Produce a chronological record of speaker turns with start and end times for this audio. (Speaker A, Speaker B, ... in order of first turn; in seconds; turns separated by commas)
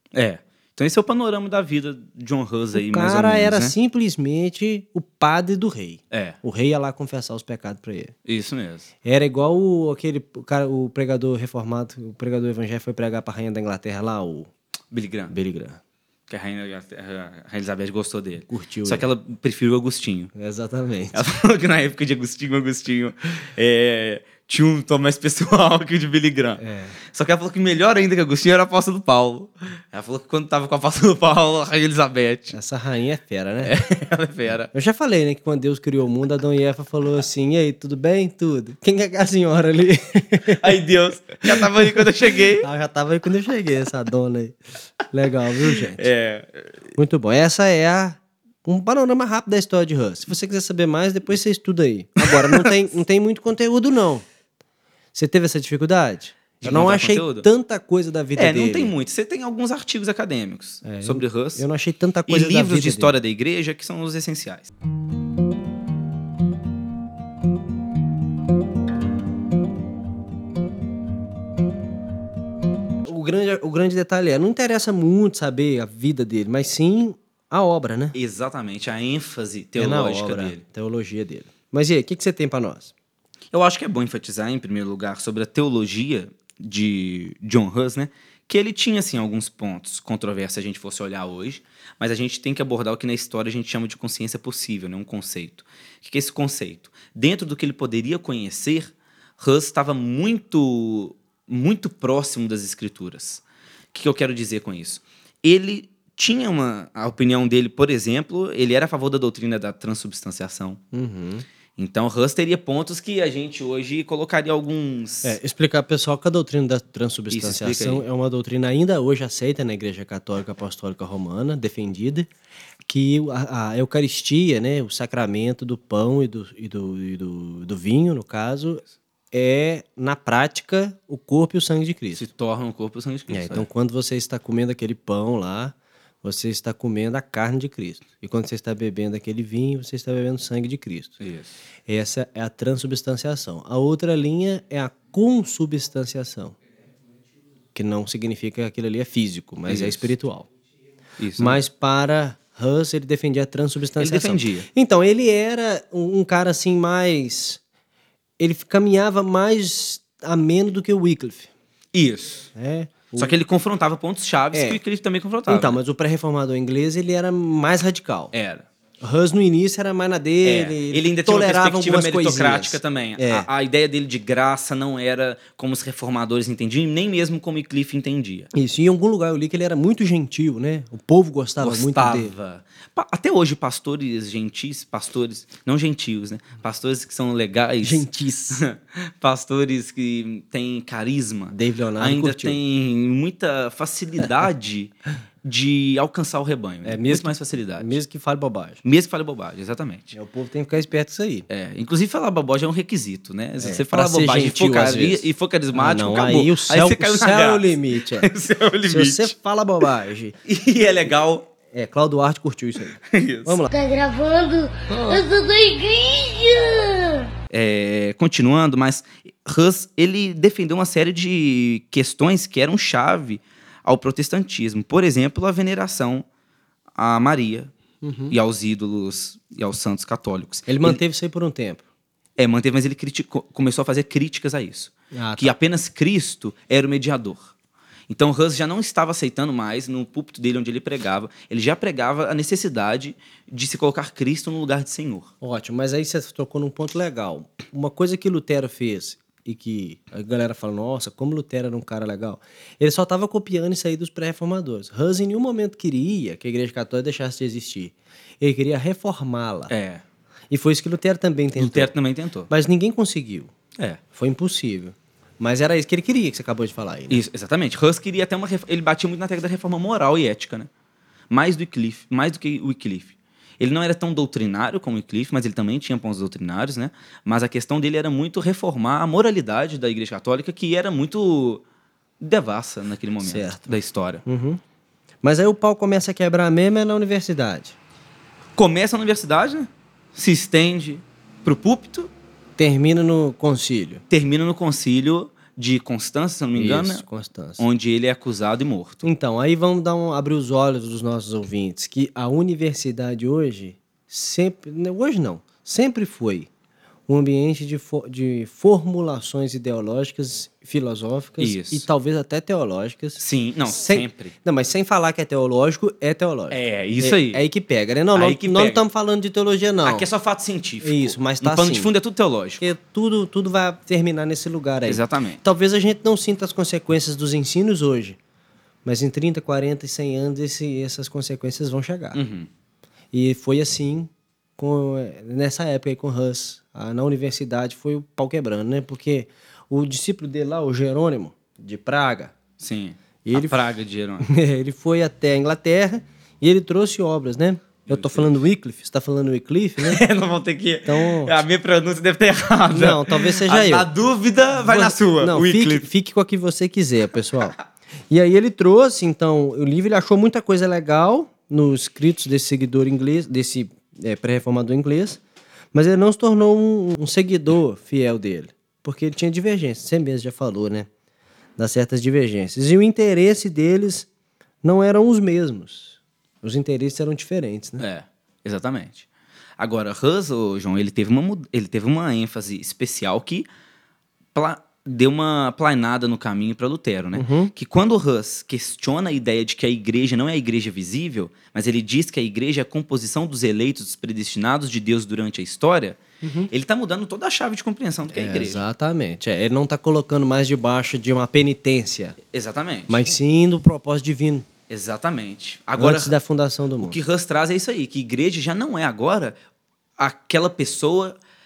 Speaker A: 0.1-3.7, Speaker B: 2.8-8.1, Speaker A: 6.1-6.4, Speaker A: 8.3-8.9, Speaker B: 9.0-14.5, Speaker A: 14.9-15.3, Speaker B: 15.3-15.8, Speaker A: 16.3-20.3, Speaker B: 18.5-19.1, Speaker B: 20.4-21.2, Speaker A: 21.1-32.6, Speaker B: 26.6-27.0, Speaker B: 32.5-33.7, Speaker A: 33.6-34.7, Speaker B: 34.7-40.7, Speaker A: 40.5-42.7, Speaker B: 41.5-44.6, Speaker B: 45.1-46.1, Speaker A: 45.9-46.7, Speaker B: 47.0-54.3, Speaker A: 52.3-52.7, Speaker B: 55.1-58.9, Speaker A: 56.6-57.5, Speaker A: 58.4-61.6, Speaker B: 60.8-63.1, Speaker A: 62.3-64.7, Speaker B: 73.0-78.2, Speaker A: 78.1-80.6, Speaker B: 79.8-82.9, Speaker A: 83.5-103.4, Speaker A: 103.9-110.8, Speaker B: 110.9-111.5, Speaker A: 111.8-115.4, Speaker B: 115.2-122.3, Speaker A: 117.3-118.0, Speaker B: 122.9-132.3, Speaker A: 132.1-133.7, Speaker B: 133.3-141.2, Speaker A: 141.2-141.5, Speaker B: 141.9-146.6, Speaker B: 147.7-150.5, Speaker A: 149.7-150.1, Speaker A: 151.2-151.6, Speaker B: 151.4-157.6, Speaker A: 154.0-154.7, Speaker B: 158.4-161.5, Speaker A: 161.9-162.5, Speaker B: 162.6-163.3, Speaker A: 163.2-165.8, Speaker B: 164.5-164.8, Speaker B: 165.5-168.3, Speaker A: 168.3-168.7, Speaker B: 169.0-173.5, Speaker A: 170.4-178.5, Speaker B: 178.5-182.3, Speaker A: 181.6-198.0, Speaker B: 187.8-188.6, Speaker B: 191.5-192.6, Speaker B: 196.8-198.8, Speaker A: 198.8-200.2, Speaker B: 200.1-201.5, Speaker A: 201.5-209.3, Speaker B: 203.6-208.3, Speaker B: 208.8-210.4, Speaker A: 210.4-211.5, Speaker B: 211.7-213.7, Speaker A: 213.1-213.6, Speaker C: 213.7-217.3, Speaker B: 214.9-215.2, Speaker A: 217.5-226.3, Speaker A: 227.0-227.7, Speaker B: 228.0-228.3, Speaker A: 228.3-231.0, Speaker B: 230.7-231.8, Speaker A: 232.4-237.5, Speaker B: 235.1-235.5, Speaker A: 238.1-245.3, Speaker B: 245.4-259.7, Speaker A: 259.7-260.0, Speaker B: 260.5-261.9, Speaker A: 261.6-262.5, Speaker B: 262.5-263.5, Speaker B: 264.1-267.2, Speaker A: 267.1-270.7, Speaker A: 271.3-281.6, Speaker A: 282.2-284.2, Speaker B: 283.2-283.6, Speaker B: 284.2-284.6, Speaker B: 285.2-287.8, Speaker A: 288.6-292.1, Speaker B: 292.6-294.0, Speaker A: 294.1-297.0, Speaker B: 296.6-297.6, Speaker A: 297.6-299.1, Speaker B: 299.0-306.5, Speaker B: 307.1-320.1, Speaker A: 311.4-311.9, Speaker A: 313.2-314.3, Speaker A: 316.5-317.4, Speaker A: 318.1-318.8, Speaker A: 319.8-322.6, Speaker B: 320.8-321.9, Speaker B: 322.6-328.2, Speaker A: 324.9-325.4, Speaker B: 328.9-332.2, Speaker A: 332.1-332.5, Speaker B: 333.1-342.3, Speaker A: 342.6-344.3, Speaker B: 343.2-343.6, Speaker B: 344.2-350.0, Speaker A: 347.9-348.4, Speaker A: 349.8-355.9, Speaker B: 350.9-351.4, Speaker B: 352.7-353.9, Speaker B: 354.6-357.6, Speaker B: 358.1-365.2, Speaker B: 365.7-370.9, Speaker B: 371.6-374.1, Speaker B: 374.6-377.8, Speaker A: 377.8-379.1, Speaker A: 379.6-383.5, Speaker A: 384.3-398.6, Speaker B: 387.1-387.5, Speaker B: 396.2-396.5, Speaker B: 398.1-402.2, Speaker A: 402.3-403.1, Speaker B: 402.9-404.5, Speaker A: 404.7-406.2, Speaker B: 405.8-407.0, Speaker A: 406.8-409.4, Speaker A: 410.0-411.2